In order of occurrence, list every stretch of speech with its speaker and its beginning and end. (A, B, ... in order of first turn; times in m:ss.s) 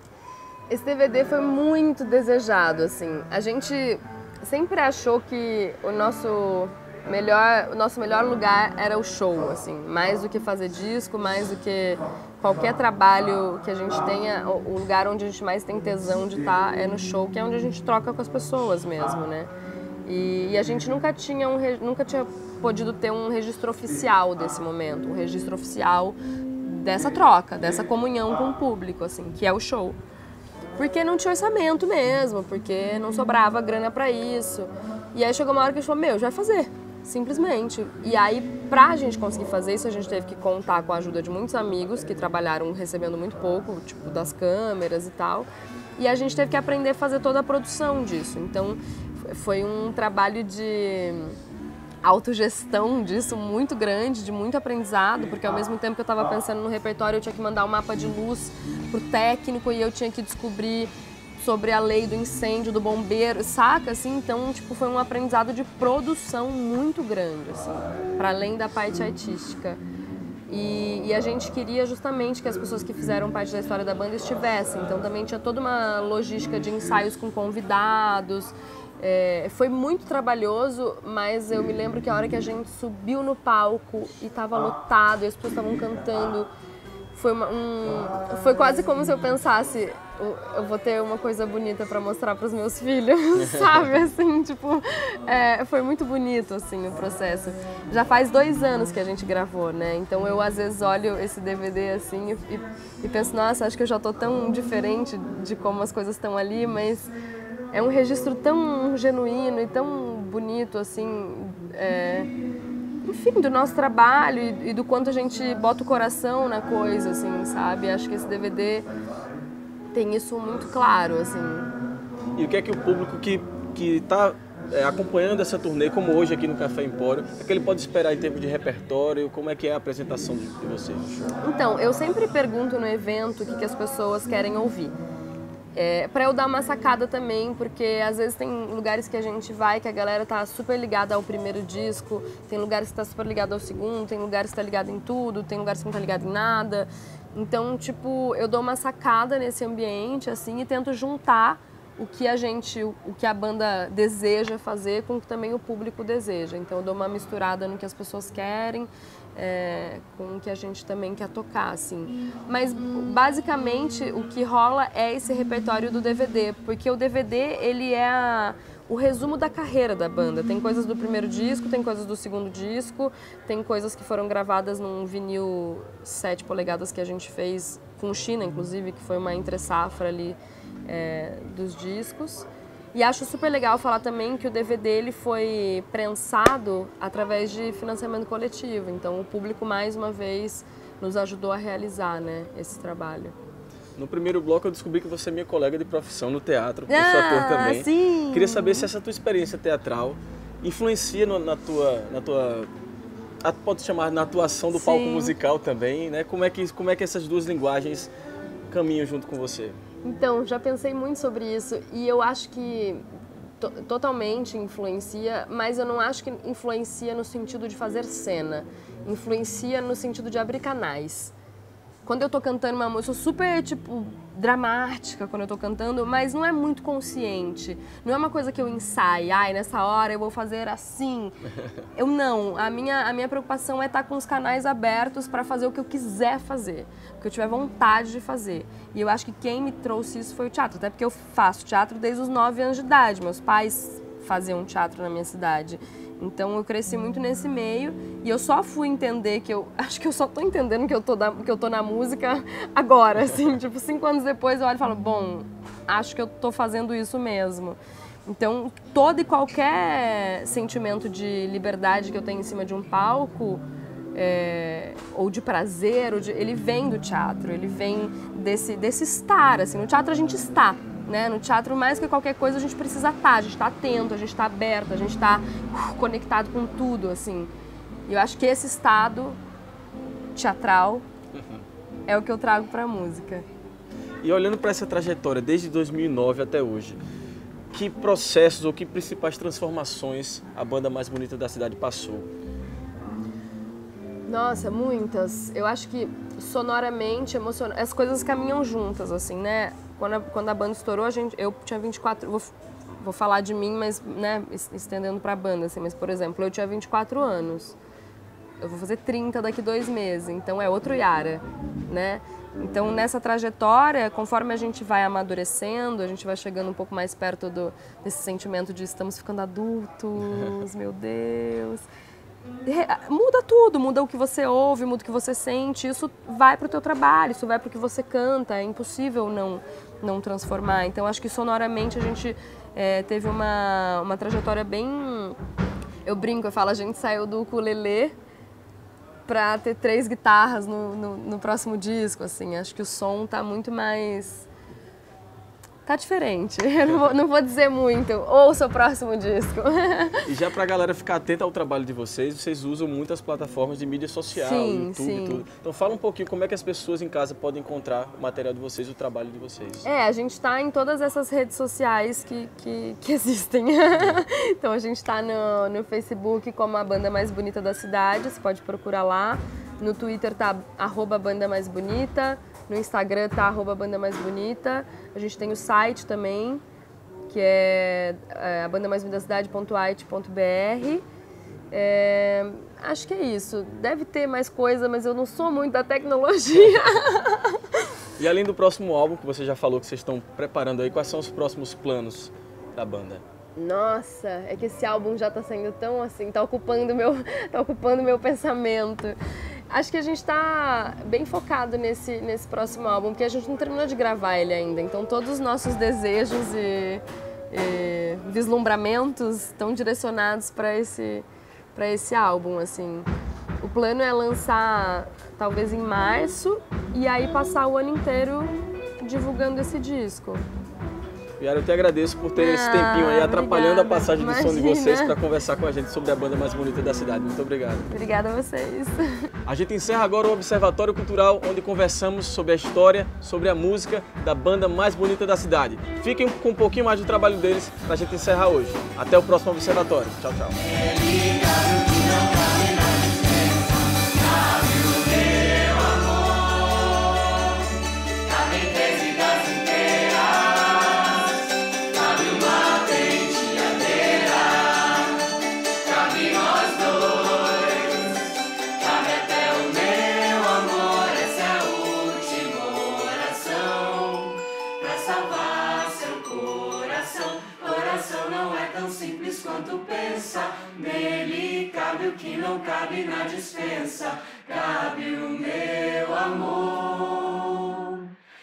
0:00.7-0:19.5 A
0:20.0-0:30.0 A
0:30.8-0:51.4 A
0:52.0-1:09.8 A
1:10.5-1:26.5 A
1:27.1-1:47.1 A
1:47.7-1:52.3 A
1:53.0-1:58.9 A
1:59.9-2:01.7 A
2:02.4-2:11.3 B
2:11.4-2:15.0 A
2:15.7-3:13.3 A
3:14.0-3:22.7 B
3:16.9-3:18.9 A
3:23.4-3:28.1 B
3:24.7-3:25.3 A
3:28.7-3:29.8 B
3:30.0-3:33.0 A
3:33.6-3:41.3 A
3:42.0-3:51.4 A
3:51.9-4:23.6 A
4:24.1-4:37.5 A
4:38.1-4:39.4 A
4:40.3-4:41.0 A
4:41.4-4:41.6 B
4:42.1-4:43.4 A
4:44.2-4:47.0 B
4:47.7-4:52.3 B
4:54.3-5:07.8 A
5:08.6-5:21.9 A
5:22.6-5:35.4 A
5:36.0-5:38.1 A
5:39.2-5:44.5 A
5:45.8-5:50.2 A
5:50.2-5:59.9 B
5:54.3-5:55.4 A
5:59.8-6:16.6 A
6:17.3-6:21.0 A
6:21.7-6:27.8 A
6:28.2-6:33.2 B
6:33.6-6:39.2 A
6:39.7-6:53.1 A
6:53.6-7:00.4 A
7:01.4-7:07.9 B
7:02.4-7:05.2 A
7:07.9-7:09.3 A
7:09.4-7:20.6 B
7:20.6-7:27.4 C
7:28.2-7:58.0 C